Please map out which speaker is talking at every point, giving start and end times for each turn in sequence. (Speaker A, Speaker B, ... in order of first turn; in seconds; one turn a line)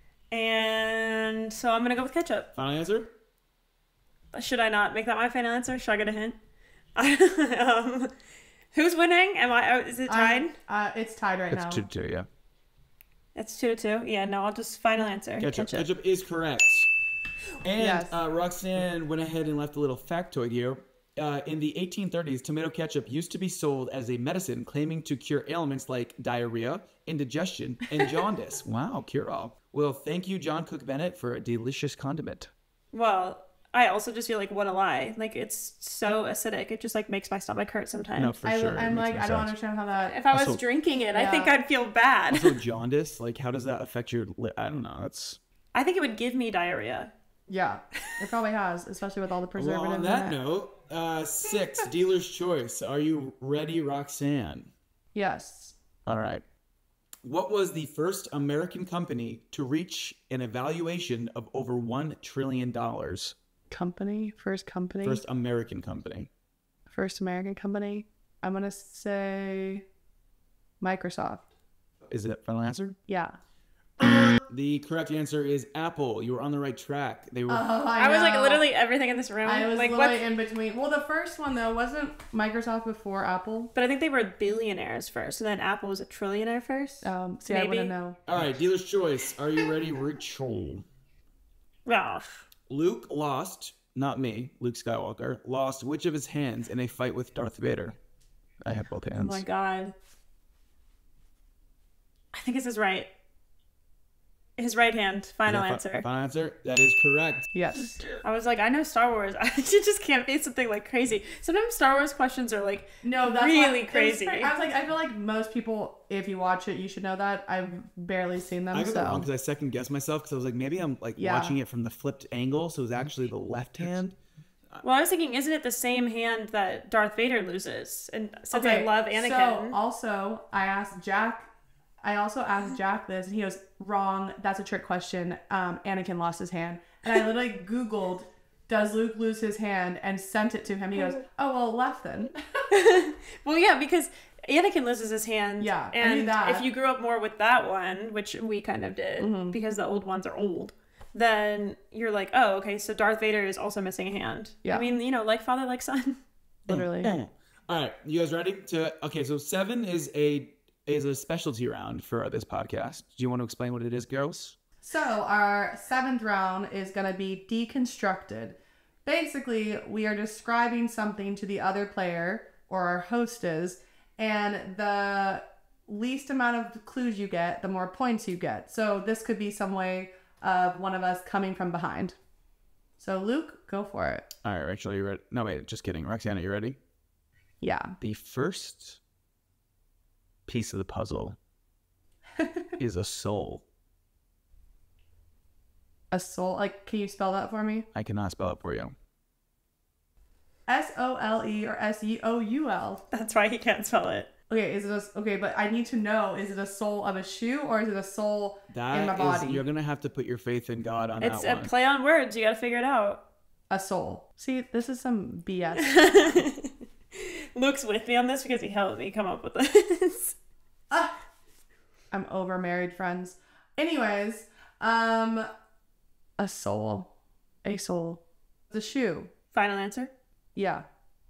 Speaker A: 0.3-2.5
Speaker B: 2.5-3.1
Speaker A: 4.3-6.4
Speaker A: 7.0-8.1
Speaker A: 8.7-10.5
Speaker C: 10.1-11.8
Speaker B: 11.5-12.3
Speaker A: 13.3-15.9
Speaker B: 15.4-16.9
Speaker B: 17.6-32.5
Speaker C: 17.8-18.2
Speaker A: 32.9-38.4
Speaker B: 38.1-39.5
Speaker C: 38.4-40.2
Speaker A: 40.0-42.6
Speaker B: 40.3-40.6
Speaker C: 41.1-41.6
Speaker B: 42.3-45.4
Speaker A: 45.7-47.1
Speaker C: 47.5-50.4
Speaker B: 49.5-54.7
Speaker C: 55.1-55.8
Speaker B: 56.0-56.4
Speaker B: 57.2-63.3
Speaker C: 63.7-65.2
Speaker B: 65.0-66.3
Speaker C: 66.9-69.8
Speaker C: 70.8-71.5
Speaker B: 72.1-73.0
Speaker C: 73.1-73.4
Speaker B: 74.0-77.6
Speaker C: 77.5-78.7
Speaker A: 78.0-80.2
Speaker C: 79.4-83.7
Speaker A: 83.7-87.9
Speaker C: 87.0-88.2
Speaker B: 88.2-90.8
Speaker A: 91.8-92.4
Speaker B: 92.7-98.0
Speaker B: 98.6-99.4
Speaker A: 99.1-99.9
Speaker A: 102.3-103.1
Speaker A: 104.6-106.0
Speaker B: 105.5-107.5
Speaker C: 107.5-108.0
Speaker A: 108.2-114.5
Speaker C: 113.0-119.3
Speaker B: 118.7-124.2
Speaker C: 121.2-121.6
Speaker A: 124.8-129.8
Speaker C: 128.5-131.5
Speaker C: 132.0-142.6
Speaker A: 140.9-141.2
Speaker A: 142.7-156.2
Speaker C: 145.6-146.7
Speaker C: 149.2-149.6
Speaker C: 156.7-157.1
Speaker B: 156.7-164.6
Speaker C: 164.8-182.2
Speaker C: 183.0-184.3
Speaker B: 184.4-186.8
Speaker C: 187.6-188.0
Speaker B: 188.0-189.0
Speaker B: 190.5-191.4
Speaker C: 192.4-192.7
Speaker B: 192.8-193.6
Speaker C: 196.1-197.9
Speaker B: 197.9-198.9
Speaker C: 200.7-203.0
Speaker A: 203.1-204.3
Speaker C: 204.5-209.6
Speaker B: 208.7-211.7
Speaker A: 211.2-213.2
Speaker C: 213.7-216.4
Speaker A: 215.8-220.3
Speaker C: 220.9-221.1
Speaker C: 222.1-225.5
Speaker C: 226.4-227.1
Speaker C: 227.6-229.3
Speaker A: 229.5-230.1
Speaker C: 230.5-230.8